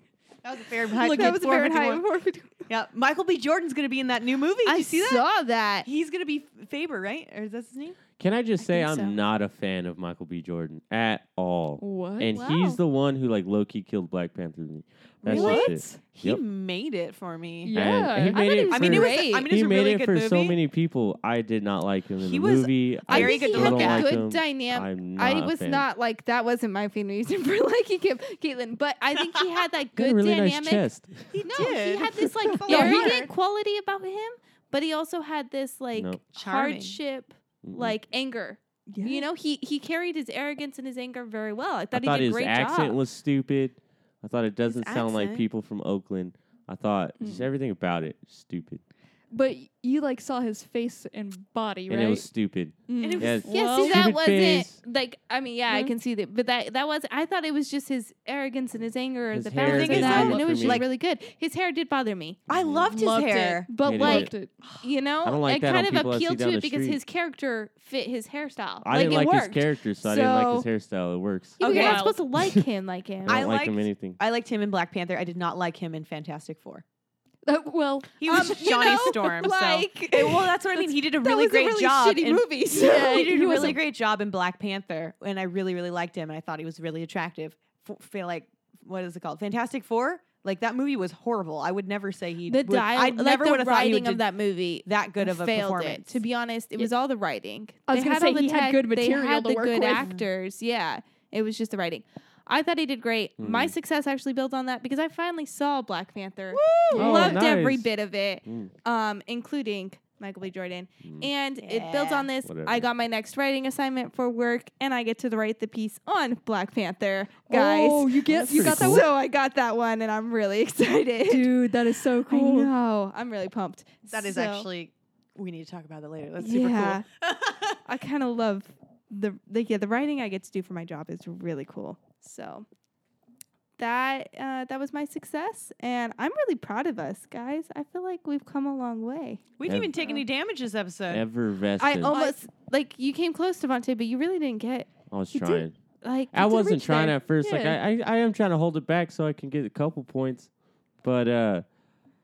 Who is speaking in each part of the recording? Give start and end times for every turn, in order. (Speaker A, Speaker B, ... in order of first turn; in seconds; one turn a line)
Speaker A: 0.4-2.0
Speaker B: 0.9-2.5
Speaker A: 2.7-5.3
Speaker B: 4.7-5.9
Speaker A: 5.8-8.0
Speaker C: 8.2-16.4
Speaker B: 8.6-9.2
Speaker D: 11.8-12.4
Speaker B: 12.3-12.8
Speaker A: 15.3-17.8
Speaker D: 15.3-16.0
Speaker B: 15.3-15.7
Speaker D: 17.6-18.7
Speaker C: 17.7-25.9
Speaker B: 18.3-19.5
Speaker A: 18.7-20.6
Speaker A: 22.2-24.2
Speaker B: 23.1-30.9
Speaker C: 30.0-31.4
Speaker A: 31.3-33.3
Speaker B: 31.5-43.0
Speaker D: 32.4-33.3
Speaker C: 35.9-36.2
Speaker A: 36.3-37.0
Speaker C: 37.6-38.0
Speaker D: 38.9-39.3
Speaker C: 41.9-48.8
Speaker A: 44.7-45.5
Speaker D: 47.2-47.5
Speaker D: 49.3-52.3
Speaker C: 51.9-54.8
Speaker D: 52.9-54.0
Speaker A: 53.0-53.8
Speaker B: 53.5-62.4
Speaker D: 55.7-55.9
Speaker C: 59.3-60.9
Speaker A: 59.6-60.9
Speaker A: 62.5-63.7
Speaker C: 62.5-62.9
Speaker D: 62.9-64.5
Speaker B: 63.7-70.7
Speaker C: 63.8-64.3
Speaker C: 65.2-67.0
Speaker C: 68.8-71.6
Speaker B: 71.6-73.4
Speaker A: 71.6-72.1
Speaker D: 71.6-72.2
Speaker C: 72.4-72.6
Speaker C: 73.2-74.2
Speaker A: 73.3-76.8
Speaker D: 77.5-78.2
Speaker A: 78.2-94.2
Speaker B: 78.2-83.8
Speaker D: 82.8-83.8
Speaker B: 92.5-121.5
Speaker A: 94.8-96.2
Speaker D: 97.9-100.1
Speaker A: 100.0-100.3
Speaker C: 103.4-103.8
Speaker A: 106.5-107.3
Speaker D: 106.9-107.4
Speaker C: 107.0-107.9
Speaker C: 108.5-108.7
Speaker C: 111.0-111.3
Speaker A: 111.6-112.3
Speaker C: 112.4-112.9
Speaker D: 117.5-119.1
Speaker C: 118.5-119.1
Speaker D: 121.3-122.7
Speaker B: 122.3-124.7
Speaker A: 124.1-127.8
Speaker B: 126.4-127.0
Speaker B: 127.9-132.7
Speaker B: 133.8-139.4
Speaker A: 139.6-141.3
Speaker C: 139.7-139.9
Speaker C: 141.1-142.2
Speaker B: 141.8-147.8
Speaker D: 142.1-142.4
Speaker C: 145.1-145.7
Speaker C: 146.3-150.5
Speaker C: 151.0-151.7